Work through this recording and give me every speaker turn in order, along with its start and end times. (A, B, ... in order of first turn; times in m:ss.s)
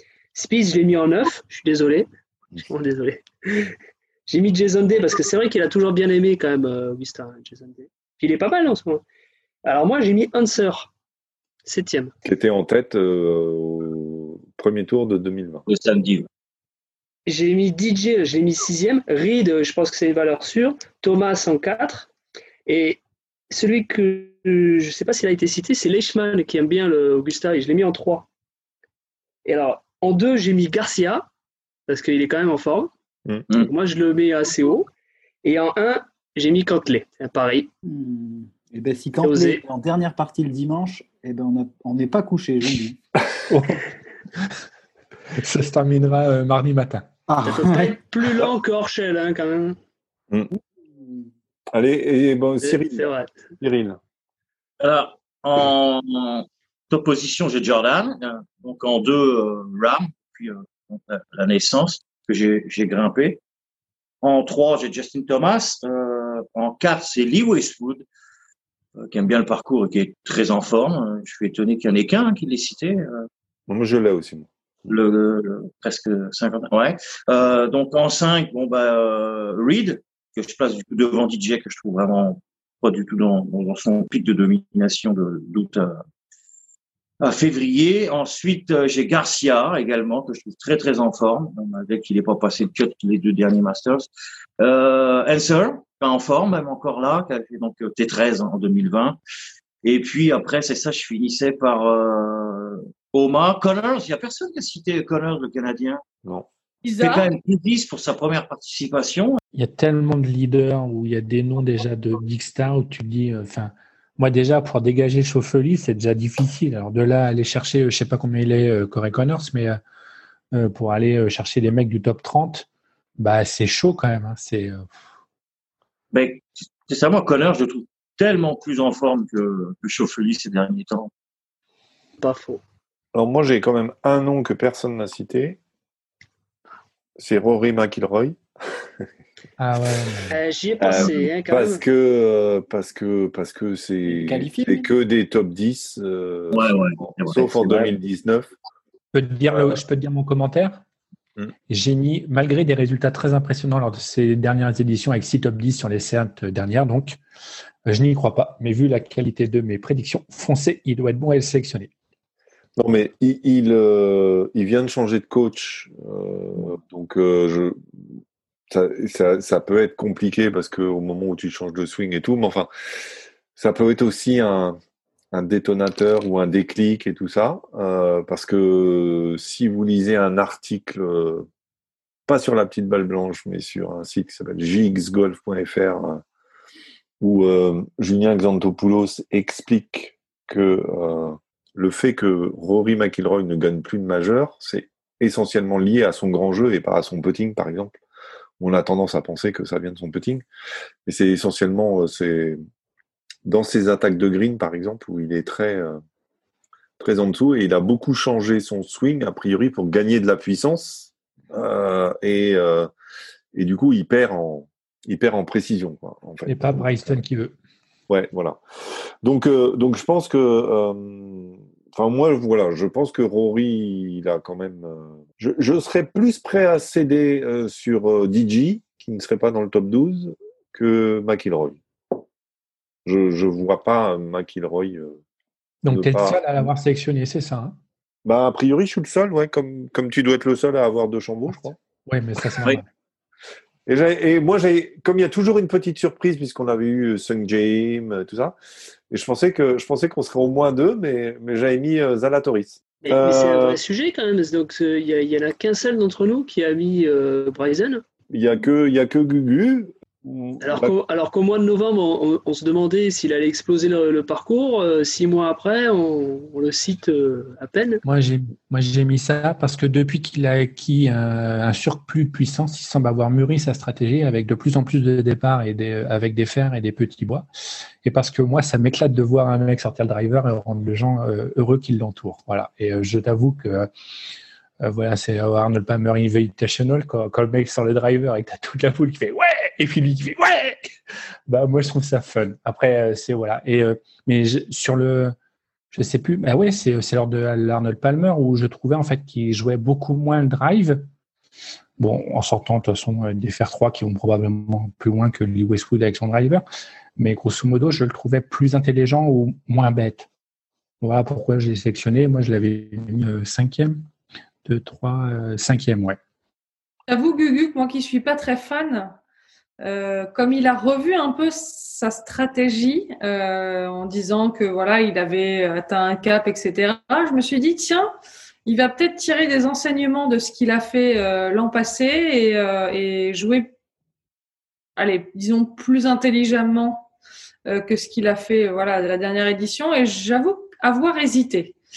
0:00.3-0:03.8 A
0:04.3-0:09.0 A
0:09.6-0:10.9 A
0:11.6-0:12.1 A
0:12.2-0:15.6 B
0:15.7-0:16.3 C
0:17.3-0:22.1 A
0:22.7-0:28.3 A
0:29.4-0:31.3 A
0:31.9-0:32.9 A
0:33.5-0:34.9 A
0:35.4-0:37.7 A
0:37.8-0:43.0 D
0:39.2-0:39.6 A
0:43.5-0:43.9 E
0:45.4-0:47.1 E
0:47.3-0:48.0 D
0:47.4-0:49.8 A
0:50.9-0:51.3 D
0:51.7-0:54.0 B
0:52.6-0:53.3 A
0:54.8-1:03.4 C
1:04.2-1:08.0 C
1:09.0-1:13.3 C
1:13.7-1:14.5 B
1:14.9-1:26.0 C
1:27.2-1:34.1 C
1:34.6-1:39.2 C
1:39.8-1:46.0 C
1:46.8-1:47.3 F
1:47.0-1:49.4 C
1:49.5-1:59.8 E
2:00.5-2:02.7 E
2:03.2-2:04.9 E
2:06.1-2:11.1 C
2:12.2-2:12.6 A
2:13.1-2:15.6 B
2:17.2-2:18.4 B
2:19.6-2:20.4 E
2:20.3-2:21.8 A
2:20.8-2:28.5 B
2:24.1-2:24.9 D
2:26.5-2:28.0 C
2:29.1-2:30.8 E
2:29.5-2:29.8 B
2:31.7-2:37.2 E
2:37.9-2:41.9 E
2:42.8-2:47.8 B
2:48.7-2:52.7 B
2:53.6-2:54.8 B
2:55.3-3:01.5 B
3:02.3-3:06.2 B
3:07.2-3:18.0 B
3:18.6-3:20.4 B
3:21.1-3:22.6 B
3:23.4-3:26.0 B
3:27.0-3:32.9 B
3:33.5-3:37.2 B
3:36.5-3:37.5 E
3:38.1-3:38.6 B
3:39.2-3:51.8 B
3:53.1-3:55.2 B
3:55.8-3:57.8 E
3:55.9-3:56.7 B
3:58.2-4:01.8 B
4:02.1-4:02.8 E
4:03.9-4:08.6 B
4:09.1-4:13.8 B
4:13.0-4:18.0 A
4:18.3-4:21.0 B
4:20.6-4:28.0 A
4:28.0-4:37.5 E
4:38.0-4:43.9 E
4:44.8-4:50.9 E
4:51.5-4:55.3 E
4:55.9-5:01.1 E
5:02.0-5:06.6 E
5:07.2-5:10.3 E
5:11.0-5:14.0 E
5:14.6-5:16.2 E
5:17.1-5:19.1 F
5:19.8-5:28.1 F
5:28.6-5:33.7 F
5:35.0-5:37.1 F
5:37.7-5:41.8 F